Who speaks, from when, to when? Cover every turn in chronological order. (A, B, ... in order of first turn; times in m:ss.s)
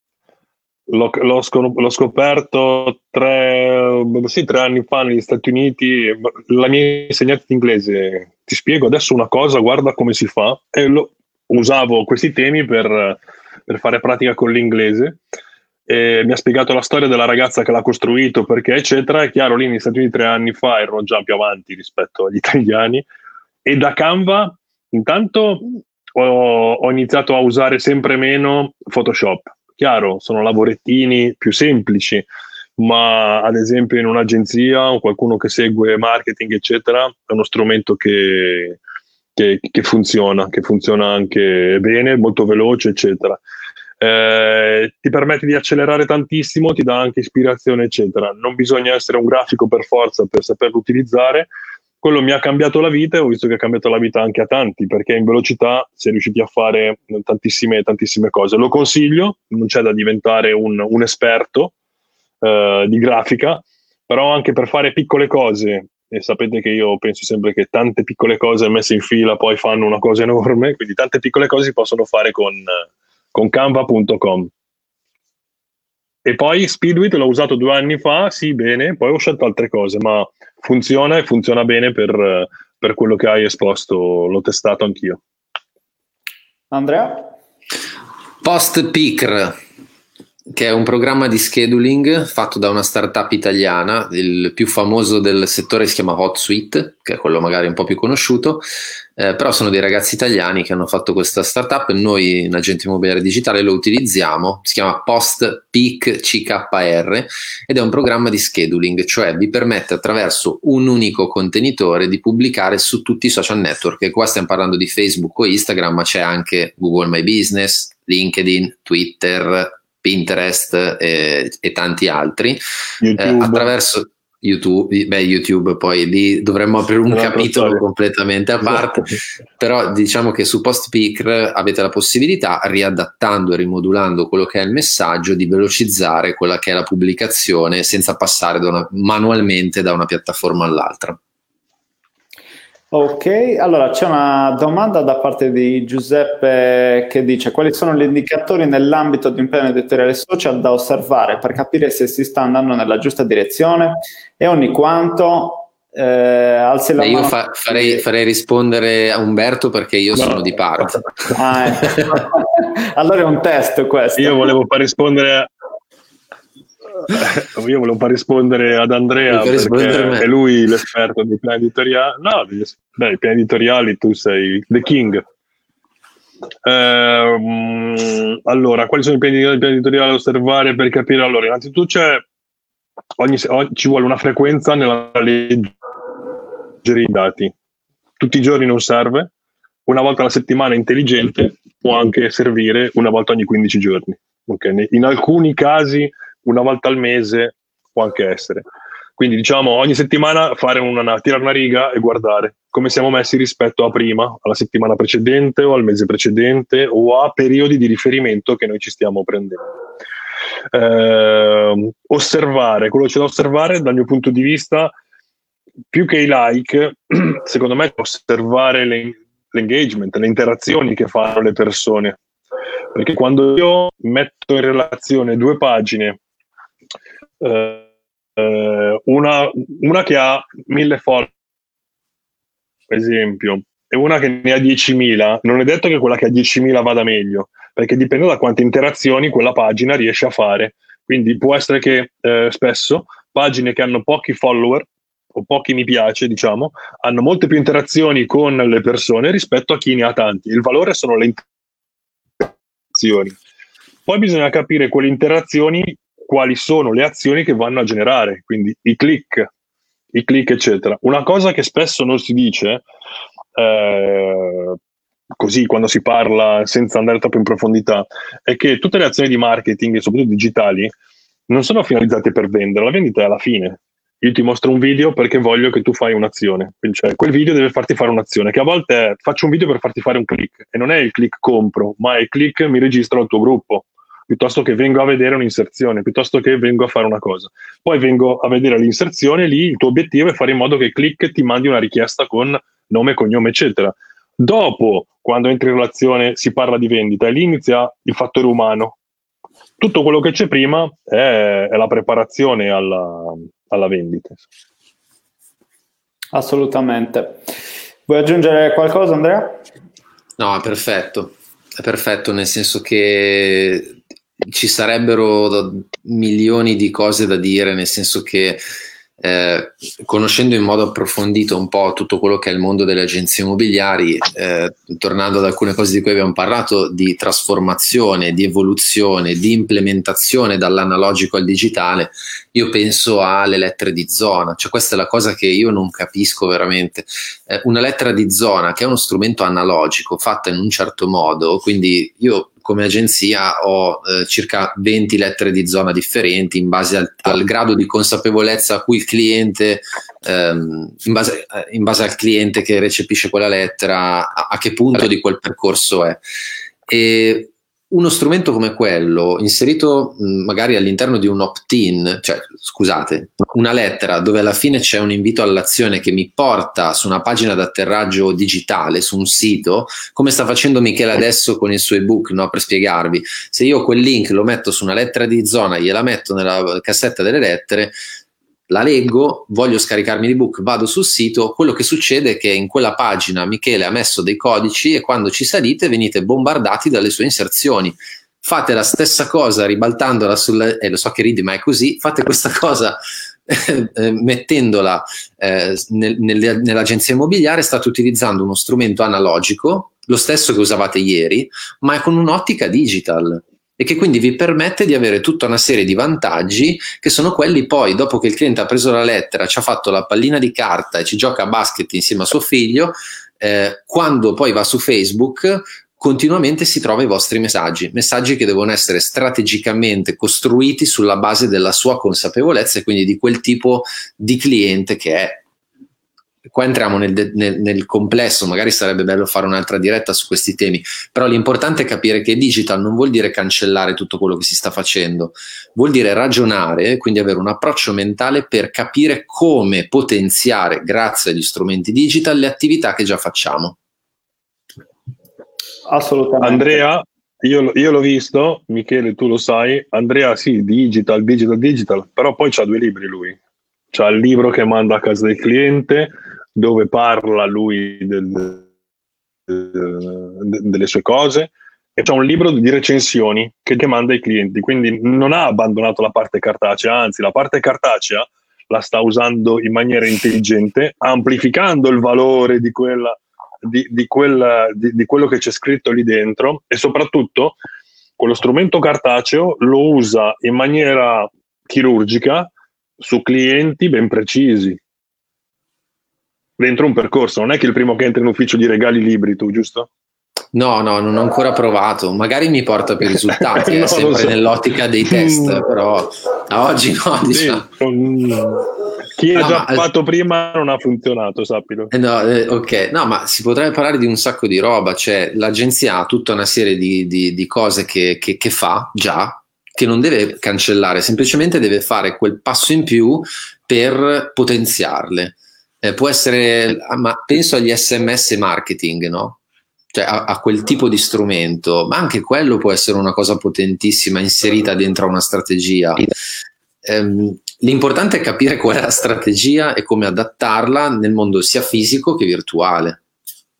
0:00.9-0:15.2 A
0:15.9-0:23.0 A
0:23.6-0:32.3 A
0:32.8-0:38.8 A
0:39.4-0:43.4 A
0:44.0-0:51.5 A
0:52.0-1:01.7 A
1:02.4-1:14.5 A
1:16.2-1:25.2 A
1:26.7-1:27.3 B
1:28.4-1:29.6 C
1:30.5-1:38.6 C
1:39.2-2:02.6 C
2:03.0-2:03.7 A
2:03.2-2:21.2 C
2:07.1-2:07.8 A
2:22.9-2:38.0 B
2:37.0-2:41.0 C
2:40.2-2:41.1 A
2:41.4-2:44.5 B
2:44.2-2:45.5 A
2:47.0-2:55.2 A
2:49.3-2:50.3 C
2:56.6-3:02.2 A
3:03.2-3:05.7 A
3:06.8-3:07.5 A
3:08.2-3:09.3 A
3:09.9-3:18.6 A
3:19.2-3:29.6 A
3:30.7-3:34.9 A
3:35.9-3:42.2 A
3:42.9-3:46.2 A
3:47.4-3:47.9 A
3:48.4-3:51.3 A
3:52.9-4:11.4 A
4:12.4-4:13.4 A
4:14.1-4:19.5 A
4:20.1-4:22.8 A
4:23.6-4:24.8 A
4:25.4-4:30.9 A
4:31.5-4:59.0 A
4:59.8-5:04.5 A
5:06.3-5:07.4 B
5:08.1-5:09.6 B
5:10.4-5:18.6 C
5:19.2-5:56.2 C
5:56.9-6:18.0 C
6:18.7-7:05.4 C
7:06.4-7:23.8 C
7:25.9-7:26.8 B
7:26.4-7:33.4 A
7:33.9-7:38.6 A
7:39.5-7:57.6 A
7:58.2-8:04.8 A
8:06.6-8:09.9 A
8:10.5-8:17.7 C
8:13.3-8:14.4 A
8:15.0-8:15.7 A
8:17.3-8:21.9 A
8:19.4-8:19.9 C
8:21.9-8:39.4 C
8:39.9-8:46.1 C
8:46.8-8:53.0 C